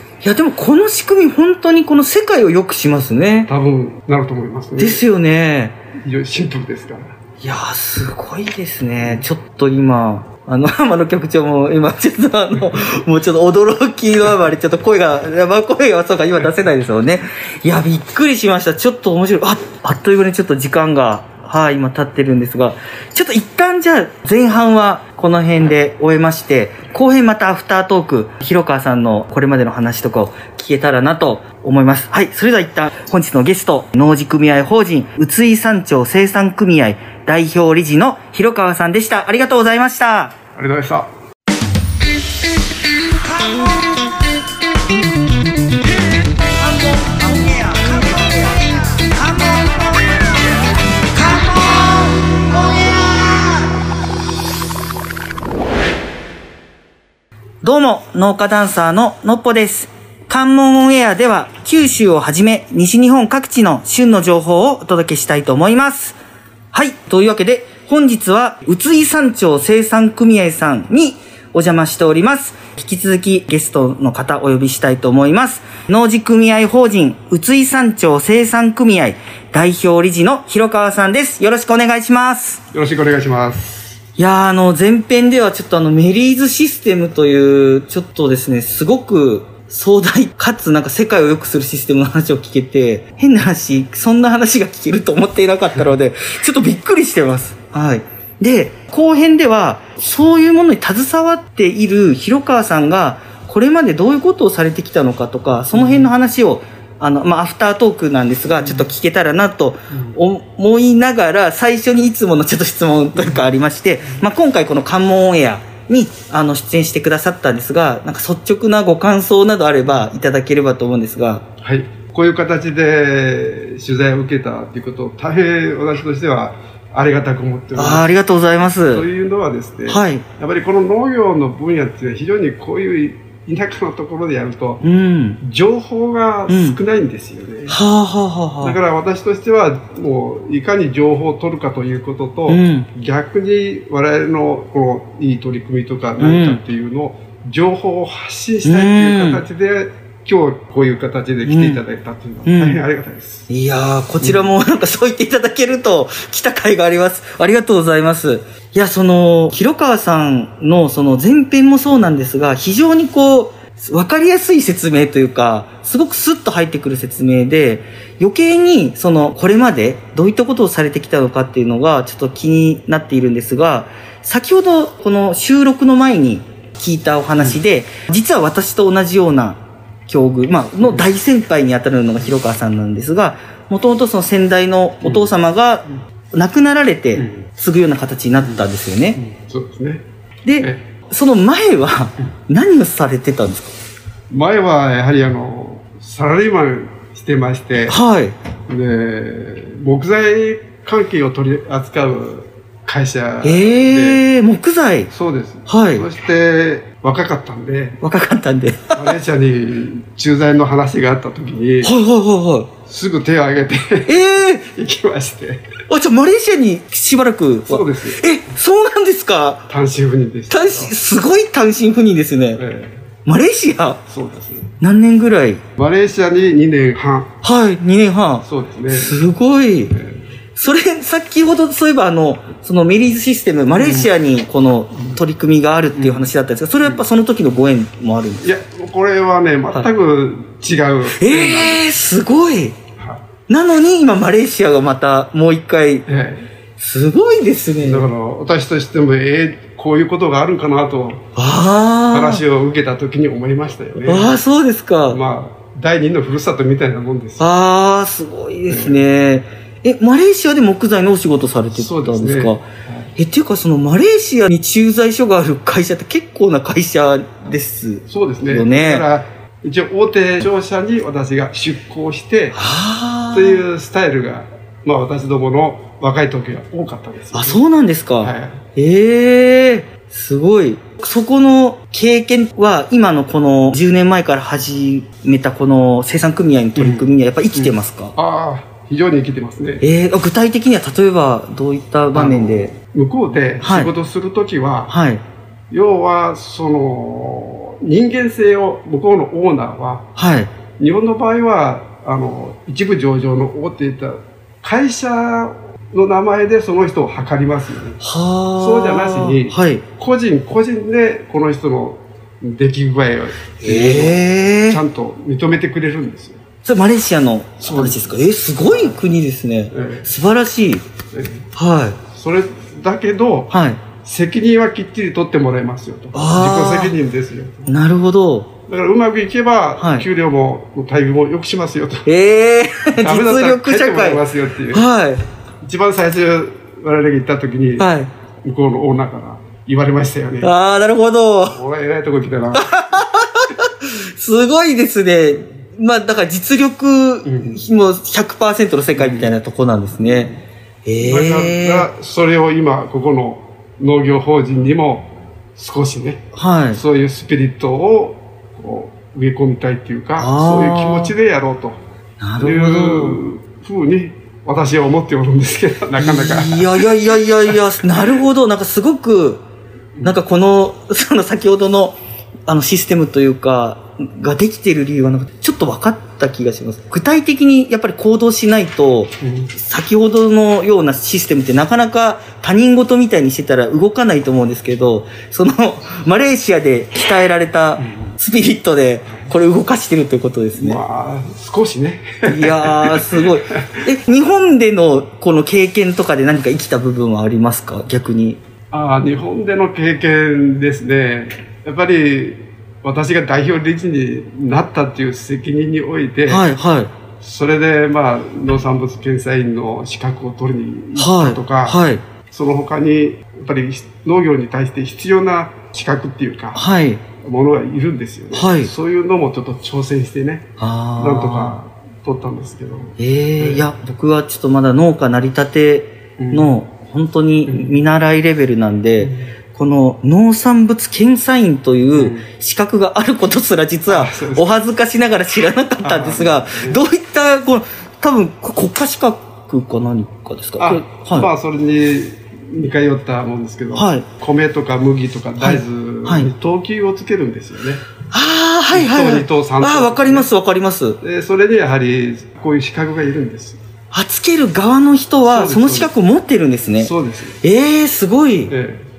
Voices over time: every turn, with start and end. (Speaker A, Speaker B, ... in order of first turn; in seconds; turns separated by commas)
Speaker A: 0.2-3.5, Speaker B: 3.5-5.0, Speaker A: 4.8-5.8, Speaker B: 6.0-7.2, Speaker A: 7.4-40.4, Speaker B: 40.5-41.1, Speaker A: 43.4-44.0, Speaker A: 46.5-50.4, Speaker A: 51.1-53.7, Speaker A: 57.6-66.2, Speaker A: 66.7-82.6, Speaker B: 82.7-83.8, Speaker A: 84.2-121.4, Speaker B: 105.7-106.1, Speaker B: 108.6-108.9, Speaker B: 113.2-113.4, Speaker B: 121.6-128.1, Speaker A: 127.8-129.1, Speaker B: 128.9-134.8, Speaker A: 129.9-130.2, Speaker A: 134.8-135.4, Speaker B: 135.4-137.8, Speaker A: 136.5-136.8, Speaker A: 137.7-138.8, Speaker B: 138.6-153.5, Speaker A: 142.5-142.9, Speaker A: 146.2-146.6, Speaker A: 148.6-149.4, Speaker A: 151.4-151.8, Speaker A: 152.4-152.8, Speaker A: 153.5-189.2, Speaker B: 154.2-154.5, Speaker B: 185.0-185.3, Speaker B: 187.2-187.4, Speaker B: 189.2-190.0, Speaker A: 190.4-193.7, Speaker B: 194.3-198.0, Speaker A: 197.9-198.3, Speaker B: 198.7-204.2, Speaker A: 203.4-205.1, Speaker B: 205.1-208.0, Speaker A: 205.7-206.1, Speaker A: 208.0-209.2, Speaker B: 208.9-211.9, Speaker A: 211.8-212.7, Speaker B: 212.8-215.6, Speaker A: 214.1-214.7, Speaker A: 215.9-219.7, Speaker B: 217.7-218.3, Speaker B: 219.7-220.9, Speaker A: 220.5-222.6, Speaker B: 222.6-223.0, Speaker A: 223.2-224.0, Speaker B: 224.1-224.7, Speaker A: 224.8-225.6, Speaker B: 225.8-227.3, Speaker A: 227.4-230.0, Speaker B: 228.4-229.2, Speaker B: 229.9-230.2, Speaker A: 230.6-238.5, Speaker B: 233.7-234.1, Speaker B: 235.9-236.3, Speaker B: 238.4-241.8, Speaker A: 241.2-242.8, Speaker B: 243.0-243.2, Speaker A: 243.5-246.1, Speaker B: 246.1-246.5, Speaker A: 246.8-248.1, Speaker B: 247.8-251.3, Speaker A: 251.3-252.4, Speaker B: 252.1-254.4, Speaker A: 254.1-255.2, Speaker B: 255.1-257.5, Speaker A: 257.4-262.6, Speaker B: 258.7-259.0, Speaker B: 261.7-263.1, Speaker A: 263.1-269.1, Speaker B: 268.1-272.6, Speaker A: 272.5-273.6, Speaker B: 273.3-277.6, Speaker A: 277.3-288.1, Speaker B: 278.2-278.6, Speaker B: 286.8-289.8, Speaker A: 289.8-292.7, Speaker B: 292.1-294.9, Speaker A: 293.6-293.9, Speaker A: 294.9-295.2, Speaker B: 295.7-300.1, Speaker A: 300.1-300.5, Speaker B: 300.8-308.0, Speaker A: 308.0-309.8, Speaker B: 308.6-316.4, Speaker A: 313.6-314.8, Speaker A: 316.6-320.8, Speaker B: 317.6-319.0, Speaker B: 319.7-320.1, Speaker B: 321.1-321.4, Speaker A: 321.5-322.0, Speaker B: 322.1-327.7, Speaker A: 323.5-323.8, Speaker A: 326.1-326.9, Speaker A: 327.7-328.5, Speaker B: 328.7-332.1, Speaker A: 329.8-330.1, Speaker A: 332.1-335.2, Speaker B: 333.0-334.9, Speaker B: 335.6-337.9, Speaker A: 337.8-338.1, Speaker B: 338.4-340.5, Speaker A: 340.4-341.6, Speaker B: 341.5-343.0, Speaker A: 342.5-350.3, Speaker B: 347.2-347.6, Speaker B: 348.9-349.3, Speaker B: 350.0-350.4, Speaker A: 350.8-351.9, Speaker B: 351.0-361.8, Speaker A: 356.3-356.8, Speaker A: 360.2-361.1, Speaker A: 362.2-363.2, Speaker B: 362.4-366.9, Speaker A: 366.0-369.4, Speaker B: 367.4-368.2, Speaker A: 370.0-390.8, Speaker B: 379.2-379.5, Speaker B: 387.8-388.1, Speaker B: 390.6-393.8, Speaker A: 392.2-398.4, Speaker B: 398.7-406.5, Speaker A: 406.3-406.9, Speaker B: 407.2-416.6, Speaker A: 411.0-412.0, Speaker A: 416.5-417.0, Speaker B: 417.2-423.7, Speaker A: 418.3-418.7, Speaker A: 420.6-421.6, Speaker A: 423.0-441.3, Speaker B: 426.2-426.5, Speaker B: 427.4-427.7, Speaker B: 429.0-429.3, Speaker B: 431.9-432.2, Speaker B: 433.9-434.5, Speaker B: 435.8-436.8, Speaker B: 440.6-447.8, Speaker A: 443.7-444.1, Speaker A: 445.4-446.3, Speaker A: 448.1-451.0, Speaker B: 448.7-450.3, Speaker B: 451.0-453.6, Speaker A: 453.9-458.5, Speaker B: 455.2-455.9, Speaker B: 456.8-457.4, Speaker B: 458.5-458.9